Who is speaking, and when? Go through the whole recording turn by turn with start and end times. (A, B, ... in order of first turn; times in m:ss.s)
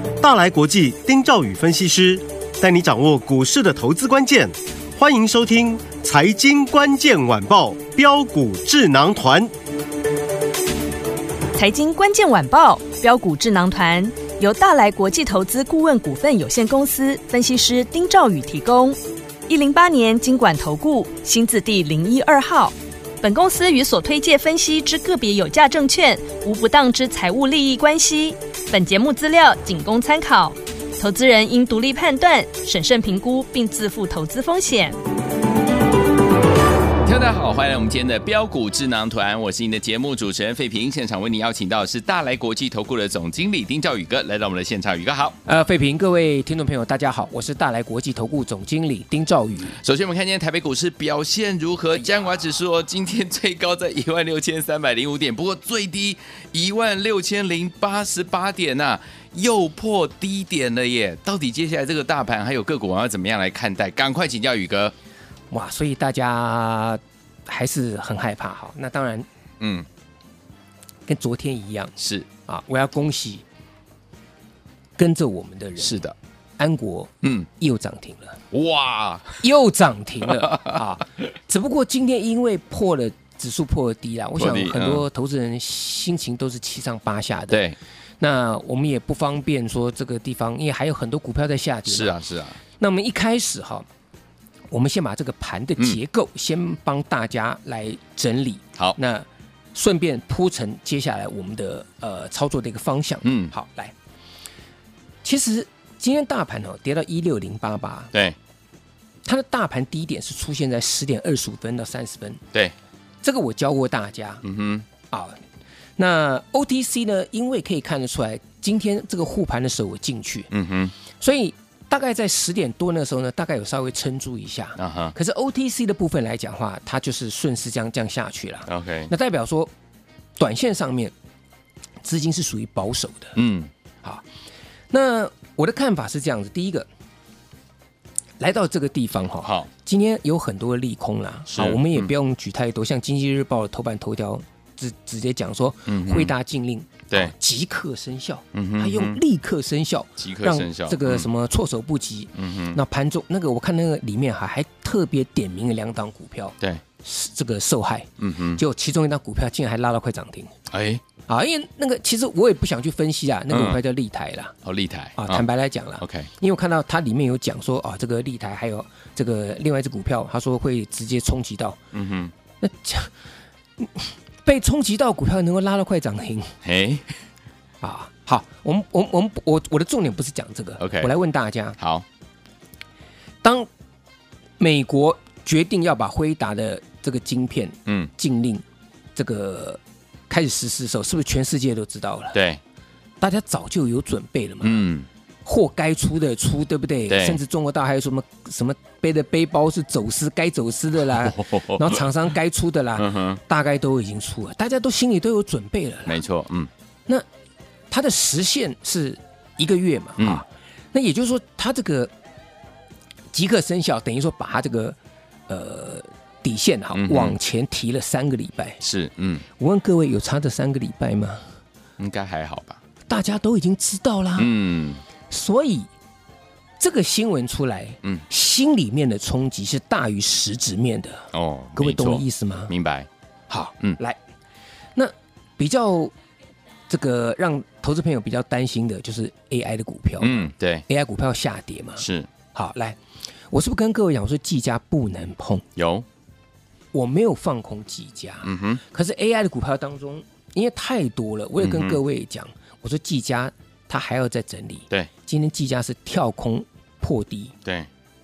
0:00.2-0:09.5 A
0:11.5-0:35.0 B
0:37.0-0:45.4 C
0:45.5-0:49.8 D
0:49.7-1:05.0 C
1:05.5-1:09.3 D
1:09.6-1:09.9 C
1:11.1-1:13.4 D
1:12.0-1:12.3 C
1:15.0-1:16.0 D
1:15.8-1:16.2 C
1:16.6-1:18.4 D
1:17.2-1:17.5 C
1:18.5-1:19.4 C
1:19.4-1:27.6 D
1:20.2-1:20.8 C
1:24.4-1:25.1 C
1:27.5-1:27.8 C
1:28.2-1:32.2 D
1:31.9-1:32.6 C
1:32.8-1:33.9 D
1:34.7-1:43.9 D
1:43.2-1:43.5 C
1:45.2-1:48.1 D
1:49.2-1:52.4 D
1:53.2-1:54.4 D
1:54.4-1:54.9 C
1:55.1-1:55.4 D
1:56.0-2:00.5 D
2:00.5-2:00.9 C
2:01.2-2:09.7 D
2:04.8-2:05.2 C
2:08.7-2:09.1 C
2:10.4-2:11.1 D
2:12.0-2:13.4 D
2:13.4-2:13.7 C
2:14.9-2:16.9 D
2:18.4-2:40.5 D
2:19.4-2:19.7 C
2:21.5-2:22.1 C
2:25.9-2:26.4 C
2:28.5-2:29.2 C
2:30.2-2:31.3 C
2:32.4-2:32.8 C
2:38.2-2:38.6 C
2:40.7-2:41.0 C
2:41.3-2:44.5 D
2:43.5-2:43.8 C
2:44.6-2:45.5 C
2:45.2-2:51.8 D
2:46.0-2:46.3 C
2:51.9-2:52.3 C
2:52.6-2:53.1 D
2:53.8-2:56.6 D
2:56.6-2:57.1 C
2:57.8-3:01.8 D
3:00.8-3:01.1 C
3:01.8-3:02.0 C
3:03.4-3:03.7 D
3:04.6-3:08.6 D
3:07.9-3:08.1 C
3:09.2-3:12.4 D
3:12.3-3:12.6 C
3:13.2-3:14.9 D
3:14.6-3:15.1 C
3:15.4-3:26.2 D
3:17.1-3:17.4 C
3:21.2-3:22.1 C
3:23.0-3:23.4 C
3:26.1-3:26.7 C
3:27.9-3:32.1 D
3:30.2-3:30.4 C
3:33.3-3:35.0 D
3:35.5-3:38.8 D
3:36.9-3:37.4 C
3:38.8-3:39.5 C
3:39.6-3:41.4 D
3:42.0-3:42.8 C
3:43.1-3:44.5 D
3:44.4-3:45.0 C
3:45.3-3:45.9 D
3:46.8-3:52.7 D
3:51.3-3:53.1 C
3:53.5-3:54.2 D
3:55.0-3:56.1 D
3:56.9-4:03.0 D
4:00.2-4:00.8 C
4:02.0-4:02.3 C
4:03.5-4:05.6 D
4:05.8-4:06.1 C
4:06.9-4:17.6 D
4:08.4-4:08.8 C
4:11.6-4:12.0 C